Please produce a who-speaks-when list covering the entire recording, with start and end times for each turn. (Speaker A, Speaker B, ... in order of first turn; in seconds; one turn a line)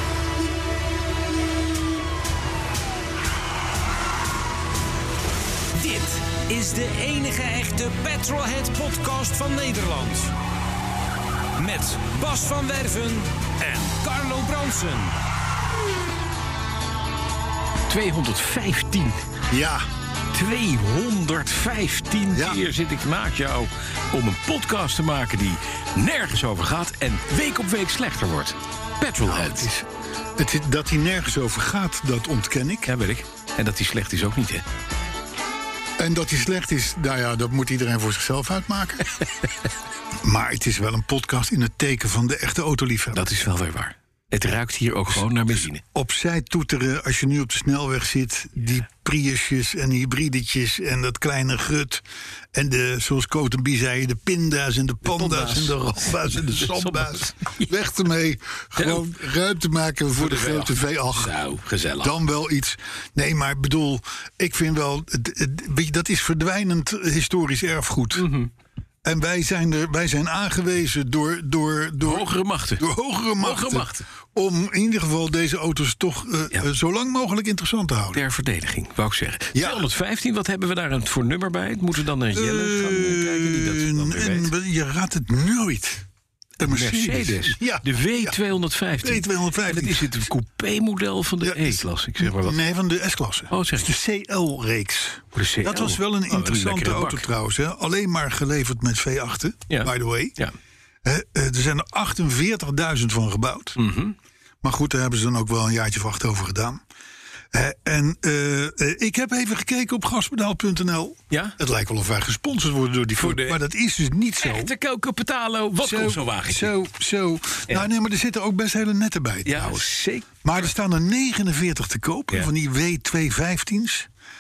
Speaker A: 5.7-10.3
Speaker A: 11.6-15.1
Speaker B: 17.9-19.2
Speaker C: 19.5-19.9
Speaker B: 20.3-29.7
Speaker C: 22.3-22.6
Speaker C: 29.2-32.9
Speaker B: 32.8-34.6
Speaker C: 36.0-39.1
Speaker C: 40.2-43.3
Speaker B: 43.1-45.8
Speaker C: 45.9-61.3
Speaker B: 55.0-57.8
Speaker B: 58.8-59.0
Speaker B: 60.1-62.2
Speaker C: 62.0-68.3
Speaker B: 68.1-68.5
Speaker C: 69.0-72.3
Speaker B: 72.0-74.0
Speaker C: 72.8-78.2
Speaker B: 78.1-84.5
Speaker C: 79.5-79.9
Speaker C: 82.3-86.0
Speaker C: 86.6-88.4
Speaker B: 86.6-92.6
Speaker C: 89.0-90.2
Speaker C: 91.4-100.3
Speaker B: 93.5-93.9
Speaker B: 95.3-97.3
Speaker B: 99.7-100.5
Speaker C: 101.0-103.8
Speaker B: 103.8-104.1
Speaker C: 104.6-106.8
Speaker C: 107.5-114.7
Speaker B: 111.3-111.6
Speaker B: 113.1-113.6
Speaker B: 114.4-116.7
Speaker C: 115.8-119.9
Speaker B: 119.5-120.7
Speaker C: 120.4-124.1